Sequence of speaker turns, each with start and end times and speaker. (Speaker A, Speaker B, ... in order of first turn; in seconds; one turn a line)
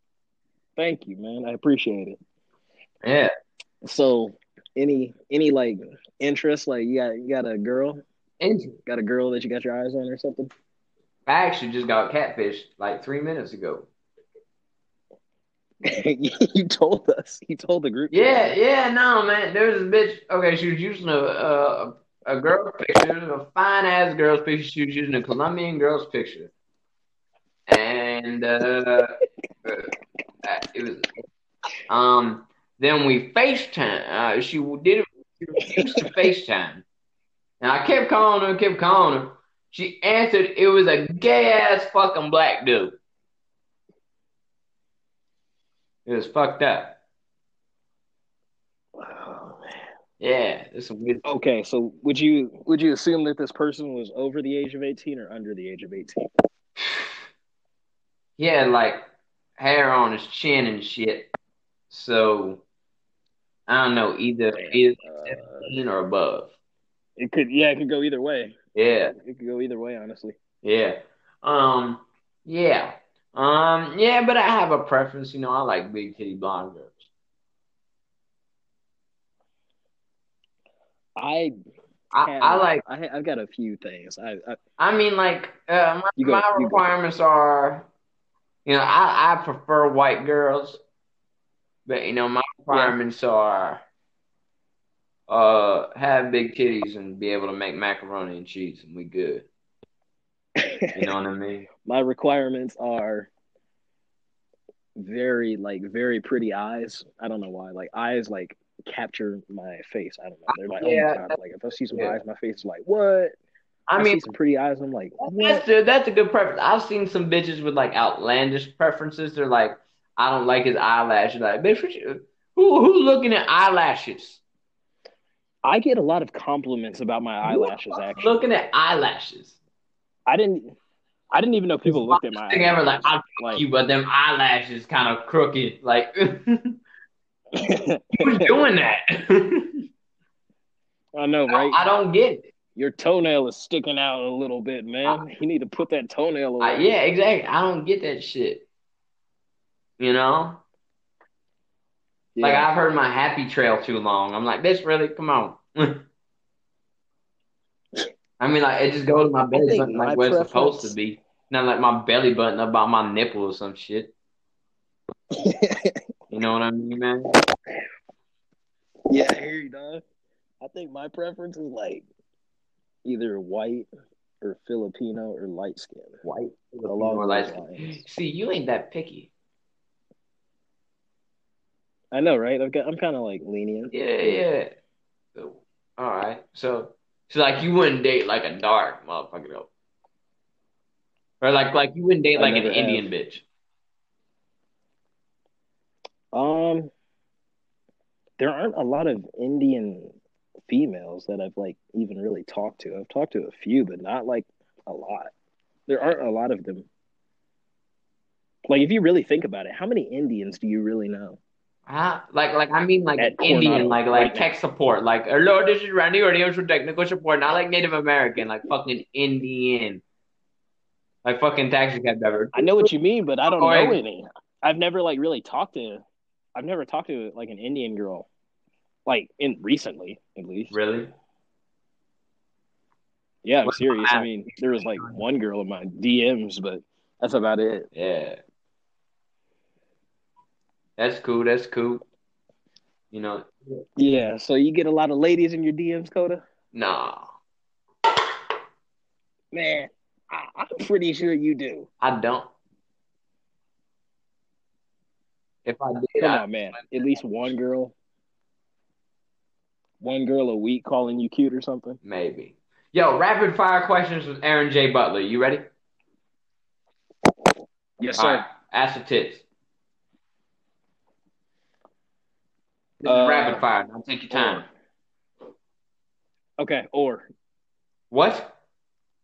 Speaker A: 0.8-2.2
Speaker B: 3.0-3.3
Speaker A: 3.8-8.0
Speaker B: 8.4-8.8
Speaker A: 8.8-10.5
Speaker B: 11.2-13.9
Speaker A: 15.8-18.6
Speaker B: 18.1-26.5
Speaker B: 27.7-29.9
Speaker B: 30.4-31.1
Speaker B: 31.9-36.8
Speaker A: 35.7-36.1
Speaker B: 37.6-43.0
Speaker B: 46.0-47.0
Speaker A: 49.0-49.8
Speaker B: 50.2-51.2
Speaker A: 51.2-56.2
Speaker B: 56.8-57.1
Speaker B: 58.4-59.0
Speaker B: 59.6-61.3
Speaker B: 61.9-62.6
Speaker B: 63.7-66.5
Speaker A: 64.5-65.8
Speaker A: 67.2-70.4
Speaker B: 68.7-69.1
Speaker B: 70.6-77.0
Speaker A: 81.2-81.5
Speaker B: 82.1-82.8
Speaker A: 82.2-84.6
Speaker B: 84.8-87.9
Speaker A: 86.2-86.9
Speaker B: 88.6-90.8
Speaker B: 91.8-93.8
Speaker B: 95.3-99.5
Speaker A: 100.6-101.0
Speaker B: 100.9-101.7
Speaker A: 101.8-103.3
Speaker A: 105.0-113.3
Speaker B: 110.5-111.3
Speaker B: 111.9-112.2
Speaker B: 113.9-114.2
Speaker A: 114.0-115.6
Speaker B: 115.2-124.4
Speaker A: 125.6-128.3
Speaker B: 127.5-129.6
Speaker A: 130.3-130.8
Speaker A: 131.3-133.6
Speaker B: 131.8-136.8
Speaker A: 137.5-138.5
Speaker B: 138.2-139.8
Speaker A: 141.1-141.8
Speaker B: 141.5-142.5
Speaker A: 142.7-146.9
Speaker B: 146.6-148.6
Speaker B: 150.0-150.6
Speaker A: 152.3-152.7
Speaker B: 152.4-156.0
Speaker B: 158.4-164.1
Speaker A: 159.5-160.9
Speaker A: 165.3-166.0
Speaker B: 166.3-167.3
Speaker A: 169.1-170.0
Speaker A: 170.6-172.1
Speaker A: 173.0-173.9
Speaker A: 174.4-176.2
Speaker B: 176.2-179.3
Speaker A: 176.9-178.0
Speaker A: 182.1-184.4
Speaker B: 183.9-184.7
Speaker B: 185.3-189.7
Speaker B: 191.4-193.4
Speaker A: 192.3-193.1
Speaker A: 196.3-196.9
Speaker A: 198.4-200.2
Speaker A: 200.7-205.3
Speaker A: 205.9-206.9
Speaker A: 208.7-211.4
Speaker B: 211.9-220.0
Speaker A: 213.2-214.5
Speaker B: 221.2-222.9
Speaker A: 222.5-226.0
Speaker B: 223.5-224.0
Speaker A: 226.6-228.3
Speaker A: 229.1-230.7
Speaker B: 230.7-231.1
Speaker A: 233.4-237.9
Speaker B: 233.6-235.2
Speaker B: 237.9-238.4
Speaker B: 241.0-242.0
Speaker B: 243.1-243.8
Speaker A: 244.0-246.4
Speaker B: 246.7-247.3
Speaker A: 249.5-251.9
Speaker B: 252.0-252.5
Speaker B: 255.6-256.8
Speaker A: 256.2-257.9
Speaker A: 260.0-262.0
Speaker B: 262.0-265.7
Speaker A: 268.0-268.4
Speaker B: 268.2-269.4
Speaker B: 273.0-274.6
Speaker A: 273.0-273.6
Speaker A: 274.3-274.6
Speaker A: 276.6-277.2
Speaker B: 278.1-278.5